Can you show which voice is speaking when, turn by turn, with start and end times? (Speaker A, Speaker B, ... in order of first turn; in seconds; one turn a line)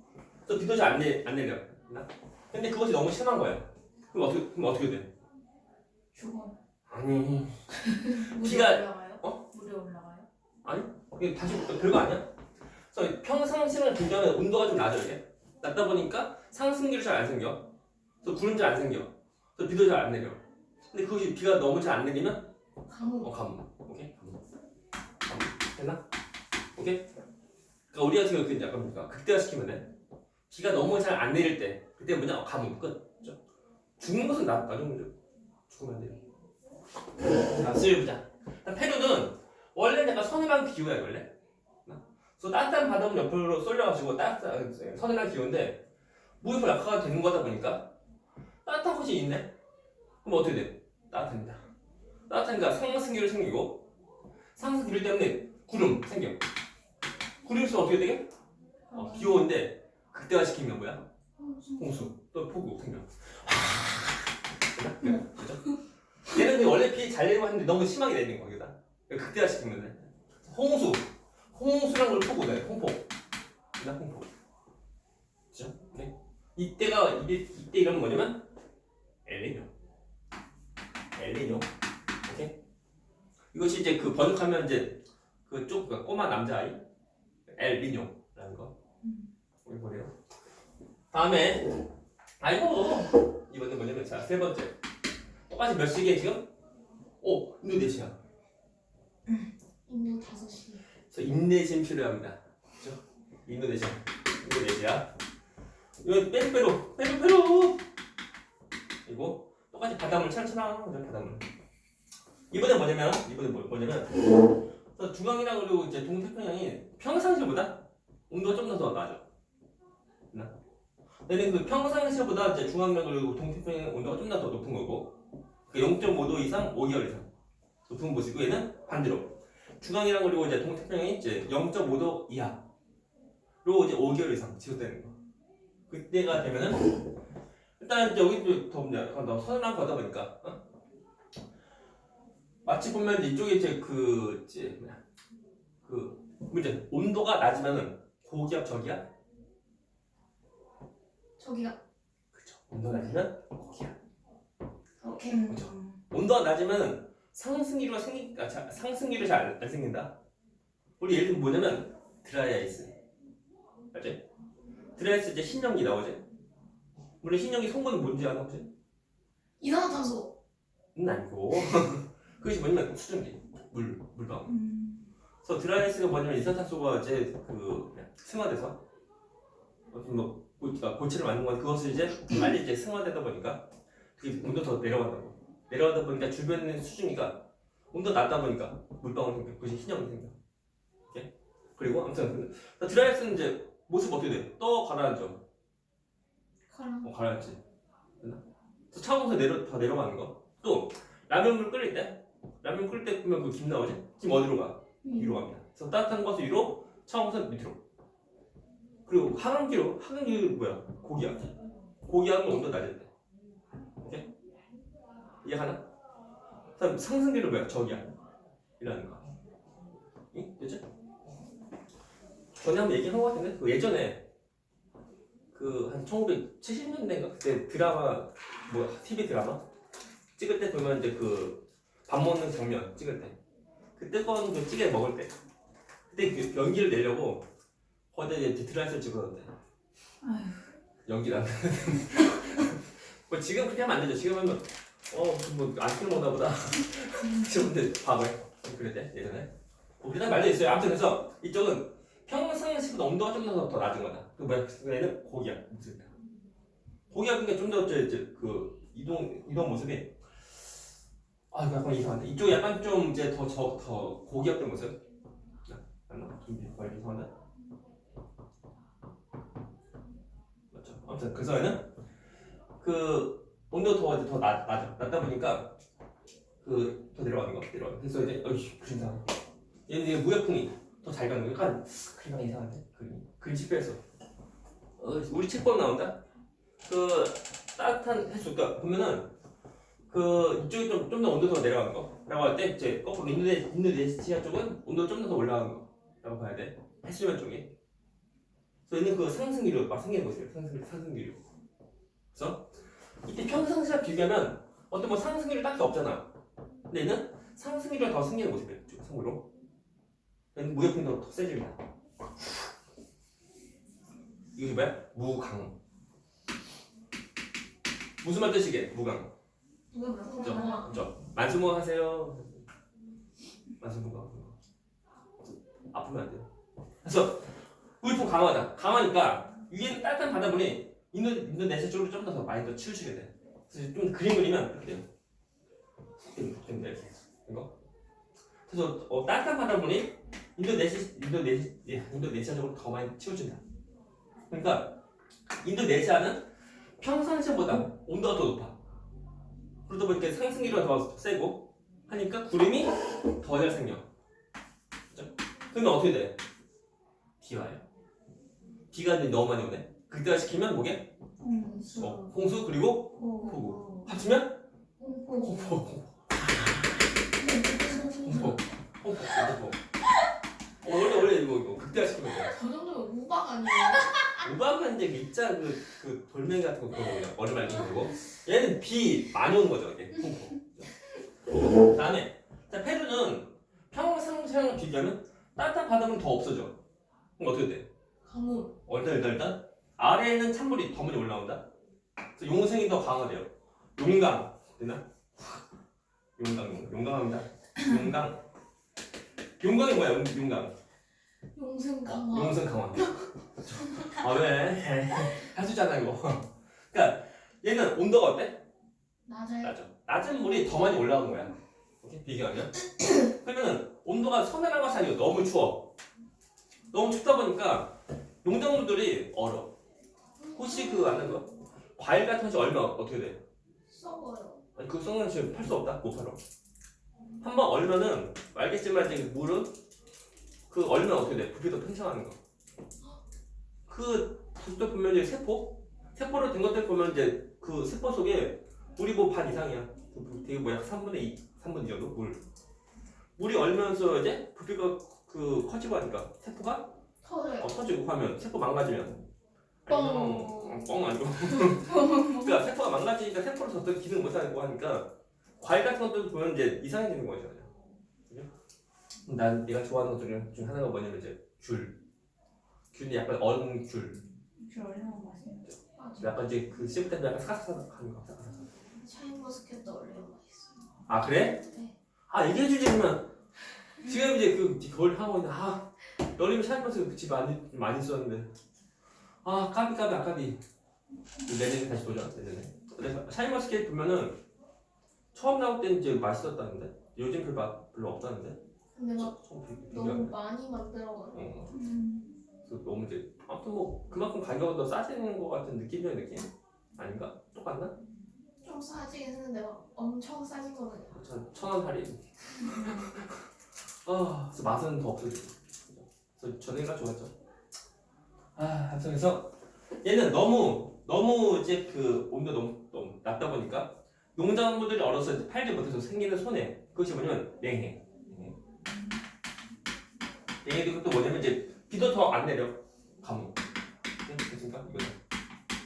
Speaker A: 0.5-5.1
Speaker B: 6.1-6.5
Speaker A: 6.9-9.4
Speaker B: 8.1-8.5
Speaker C: 8.3-8.8
Speaker B: 9.2-10.2
Speaker A: 10.6-12.3
Speaker A: 12.9-17.7
Speaker A: 18.2-22.5
Speaker C: 22.9-23.4
Speaker A: 23.2-24.4
Speaker A: 25.2-26.0
Speaker A: 26.8-27.0
Speaker A: 27.9-29.9
Speaker A: 30.5-33.4
Speaker A: 34.0-35.1
Speaker A: 35.7-36.2
Speaker A: 37.3-41.3
Speaker A: 41.9-45.8
Speaker A: 46.4-47.9
Speaker A: 48.6-49.5
Speaker A: 50.2-51.6
Speaker A: 52.3-53.9
Speaker A: 54.5-56.4
Speaker A: 57.4-58.2
Speaker A: 58.9-61.1
Speaker C: 61.4-61.9
Speaker A: 61.7-73.0
Speaker A: 73.8-74.3
Speaker A: 75.5-78.5
Speaker A: 79.2-79.7
Speaker A: 81.1-81.7
Speaker A: 82.2-82.5
Speaker A: 83.5-86.8
Speaker A: 87.5-88.7
Speaker A: 89.6-90.1
Speaker A: 91.1-91.8
Speaker A: 92.4-94.8
Speaker A: 95.5-96.5
Speaker A: 97.2-98.2
Speaker C: 99.9-100.8
Speaker A: 101.1-105.1
Speaker A: 106.0-107.8
Speaker A: 109.0-111.5
Speaker A: 112.5-119.2
Speaker A: 121.2-125.1
Speaker A: 125.7-127.3
Speaker A: 127.9-132.6
Speaker A: 133.6-135.1
Speaker A: 135.9-137.1
Speaker A: 137.8-140.6
Speaker A: 142.6-145.0
Speaker A: 145.8-149.0
Speaker C: 151.4-151.8
Speaker A: 152.3-153.9
Speaker C: 155.0-155.4
Speaker B: 155.3-156.0
Speaker A: 155.5-160.1
Speaker A: 161.0-162.9
Speaker A: 163.9-164.2
Speaker A: 165.0-166.2
Speaker A: 167.2-168.7
Speaker C: 169.6-170.3
Speaker A: 170.9-174.6
Speaker B: 174.5-175.0
Speaker A: 175.4-178.8
Speaker A: 179.9-190.4
Speaker A: 191.1-195.4
Speaker C: 196.7-197.0
Speaker A: 197.0-197.6
Speaker A: 198.9-207.8
Speaker C: 205.0-205.4
Speaker A: 209.1-213.1
Speaker A: 214.0-214.3
Speaker A: 215.4-215.8
Speaker A: 216.8-218.1
Speaker A: 218.8-219.2
Speaker A: 220.3-220.8
Speaker A: 222.5-224.2
Speaker A: 225.5-229.6
Speaker A: 230.4-233.4
Speaker A: 234.0-235.3
Speaker A: 236.1-237.4
Speaker A: 238.1-239.5
Speaker B: 240.2-240.6
Speaker A: 241.1-256.1
Speaker A: 257.1-260.1
Speaker A: 261.5-264.9
Speaker A: 265.6-267.3
Speaker A: 270.7-271.9
Speaker A: 272.8-275.8
Speaker A: 276.6-279.2
Speaker A: 279.9-284.0
Speaker A: 285.0-286.2
Speaker A: 286.9-289.3
Speaker A: 290.1-297.7
Speaker A: 298.9-301.4
Speaker A: 302.3-302.7
Speaker A: 303.2-306.3
Speaker A: 306.9-309.4
Speaker A: 310.5-311.8
Speaker A: 314.5-315.8
Speaker A: 318.2-319.3
Speaker C: 319.9-321.0
Speaker B: 320.3-320.8
Speaker A: 320.4-322.6
Speaker A: 323.8-324.6
Speaker A: 325.9-326.5
Speaker A: 327.0-335.1
Speaker A: 336.2-337.7
Speaker A: 338.7-343.6
Speaker A: 344.5-345.0
Speaker A: 345.6-346.4
Speaker A: 347.0-348.8
Speaker A: 349.9-354.1
Speaker A: 355.1-356.4
Speaker A: 357.4-357.8
Speaker A: 358.9-361.1
Speaker B: 361.4-362.3
Speaker A: 362.0-364.6
Speaker B: 363.2-364.1
Speaker C: 365.0-365.8
Speaker A: 365.4-367.1
Speaker C: 367.4-368.6
Speaker A: 368.1-369.8
Speaker A: 370.8-372.5
Speaker C: 372.4-374.5
Speaker A: 374.4-380.6
Speaker A: 381.7-386.8
Speaker A: 387.4-387.9
Speaker C: 388.2-388.8
Speaker A: 388.9-391.6
Speaker A: 392.4-395.5
Speaker A: 396.4-398.4
Speaker A: 399.6-400.7
Speaker C: 401.5-403.1
Speaker A: 402.1-408.6
Speaker C: 409.2-409.8
Speaker A: 409.6-415.9
Speaker A: 416.9-419.7
Speaker C: 420.4-421.3
Speaker A: 420.5-423.4
Speaker C: 423.9-424.6
Speaker A: 424.8-426.4
Speaker A: 427.4-429.7
Speaker A: 430.7-432.4
Speaker A: 433.9-442.4
Speaker A: 443.4-446.9
Speaker C: 447.2-447.7
Speaker A: 447.6-449.3
Speaker A: 449.8-455.1
Speaker C: 449.9-450.9
Speaker C: 451.6-452.6
Speaker A: 455.6-457.7
Speaker A: 459.2-462.0
Speaker A: 462.9-464.2
Speaker B: 464.6-465.7
Speaker A: 465.7-468.7
Speaker C: 466.0-466.3
Speaker C: 469.0-470.8
Speaker A: 471.1-471.6
Speaker C: 471.6-471.9
Speaker A: 472.3-473.3
Speaker A: 474.0-478.5
Speaker A: 479.4-480.6
Speaker A: 481.4-484.4
Speaker A: 485.3-488.6
Speaker C: 489.0-489.3
Speaker A: 489.2-490.3
Speaker C: 489.9-491.4
Speaker A: 491.3-491.7
Speaker B: 491.7-492.3
Speaker A: 492.6-498.0
Speaker C: 498.6-501.2
Speaker A: 501.1-503.4
Speaker A: 504.0-507.3
Speaker A: 508.6-509.5
Speaker A: 510.0-518.5
Speaker A: 520.6-523.6
Speaker A: 524.2-525.2